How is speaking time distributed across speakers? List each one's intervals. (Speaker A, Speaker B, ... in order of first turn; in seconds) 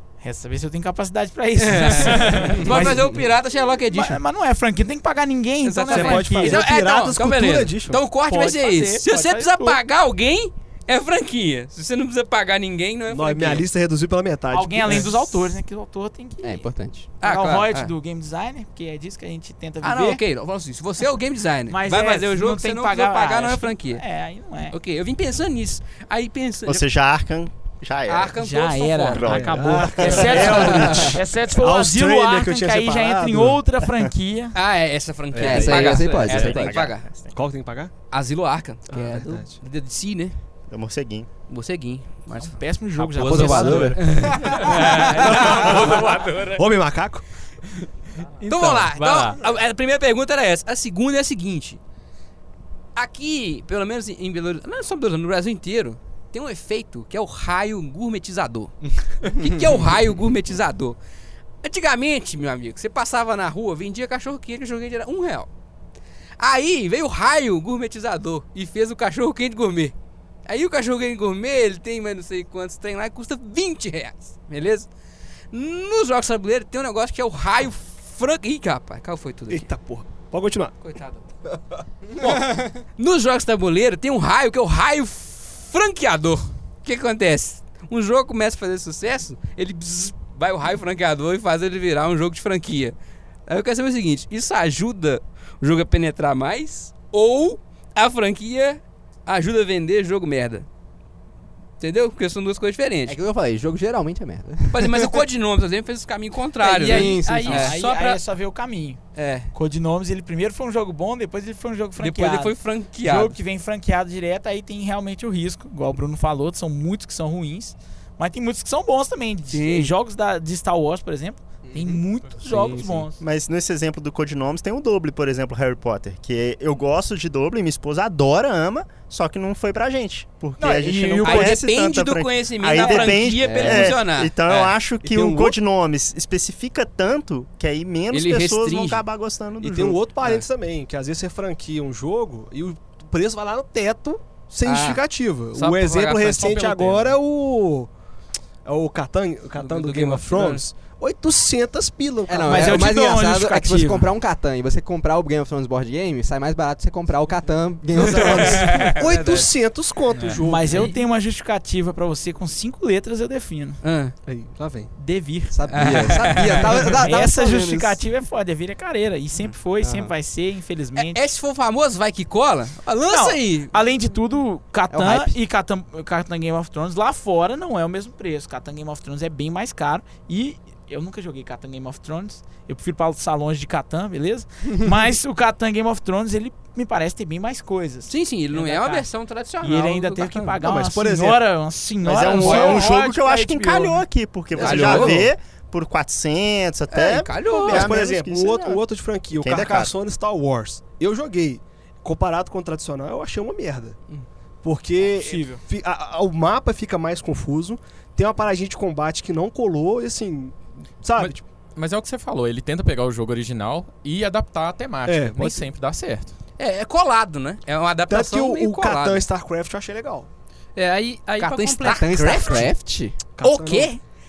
Speaker A: 0.2-3.0, 3.9-6.6, 8.3-9.8, 14.5-16.7, 17.2-20.2, 21.7-24.7, 28.4-34.5, 42.4-44.0, 107.4-109.0, 109.5-123.2, 130.6-131.6, 152.4-154.1, 160.4-163.8, 165.0-171.2, 173.1-189.1, 189.6-194.0, 194.7-195.1, 205.0-205.6
Speaker B: 1.6-4.2, 5.6-13.7, 17.2-17.9, 19.8-24.0, 24.7-26.9, 28.1-29.5, 30.0-31.1, 34.5-37.1, 38.1-40.3, 41.5-42.5, 43.2-46.0, 48.5-51.8, 53.0-61.0, 61.6-65.5, 66.4-69.9, 70.5-74.9, 75.5-79.7, 80.8-81.3, 82.2-92.9, 93.5-100.7, 101.8-103.2, 104.7-107.7, 109.1-109.5, 112.0-113.4, 119.5-119.9, 122.5-122.9, 131.2-134.7, 138.1-139.0, 144.6-145.0, 145.5-146.4, 149.6-150.7, 157.9-159.5, 163.8-164.1, 165.7-166.8, 170.9-173.7, 188.1-190.6, 192.4-192.8, 194.6-195.3, 196.9-198.0, 216.6-219.2, 221.3-222.8, 223.4-224.0
Speaker C: 2.7-3.0, 16.4-17.1, 35.4-36.8, 43.3-44.8, 82.2-82.7, 103.1-105.2, 106.8-107.6, 133.4-134.0, 152.3-158.9, 165.5-168.0, 174.9-175.4, 221.8-223.2
Speaker D: 5.9-8.0, 13.1-15.3, 29.2-33.6, 37.3-37.9, 38.9-39.5, 45.2-47.2, 79.5-80.7, 135.1-135.5, 139.6-147.9, 148.6-152.9, 158.0-160.9, 164.2-164.9, 190.6-191.4, 192.4-192.9, 194.6-195.3, 197.5-203.9, 204.6-211.4, 215.0-215.7, 218.1-220.3, 223.4-223.9
Speaker E: 26.6-28.3, 29.1-31.0, 36.2-37.3, 40.7-41.3, 123.2-140.0, 192.0-198.8, 199.4-199.9
Speaker F: 35.3-36.5, 43.0-46.6, 48.4-49.4, 106.6-108.2, 160.1-160.9, 220.8-222.6
Speaker G: 146.3-147.2, 211.2-216.3